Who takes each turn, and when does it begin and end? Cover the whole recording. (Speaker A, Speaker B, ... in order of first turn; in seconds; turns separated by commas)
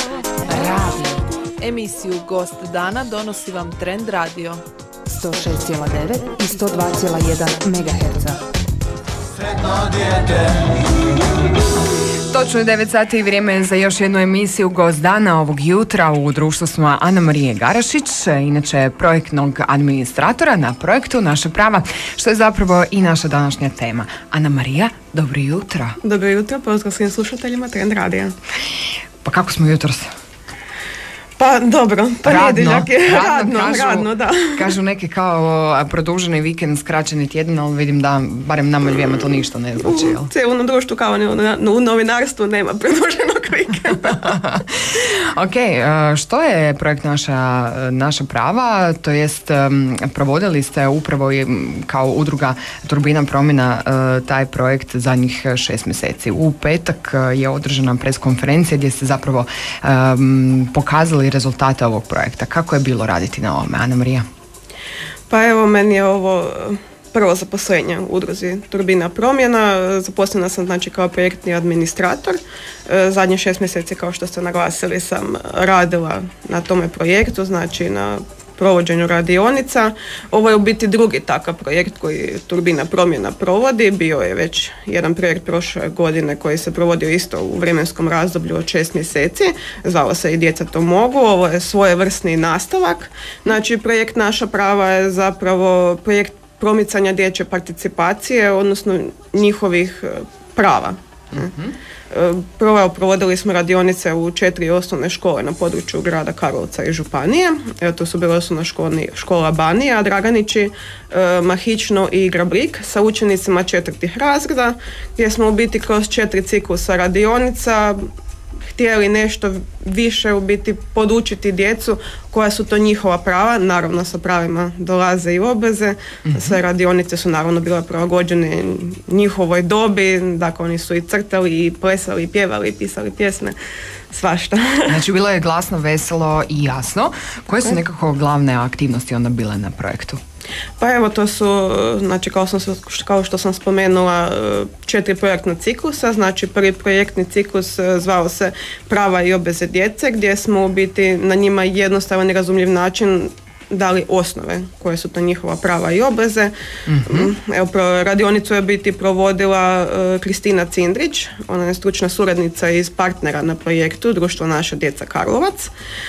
Speaker A: 0.4-1.2, Speaker B: 1.6-4.6, Speaker A: 5.1-8.4, Speaker C: 12.3-26.0, Speaker D: 26.0-28.3, Speaker C: 29.2-30.1, Speaker D: 31.4-34.7, Speaker C: 32.2-40.3, Speaker D: 39.8-44.4, Speaker C: 44.1-64.2, Speaker D: 65.3-101.5, Speaker C: 101.3-101.7, Speaker D: 102.1-118.1, Speaker D: 118.7-133.6, Speaker C: 126.3-126.6, Speaker D: 134.1-135.0, Speaker C: 134.9-140.2, Speaker D: 140.8-156.5, Speaker C: 156.9-157.3, Speaker D: 157.1-165.7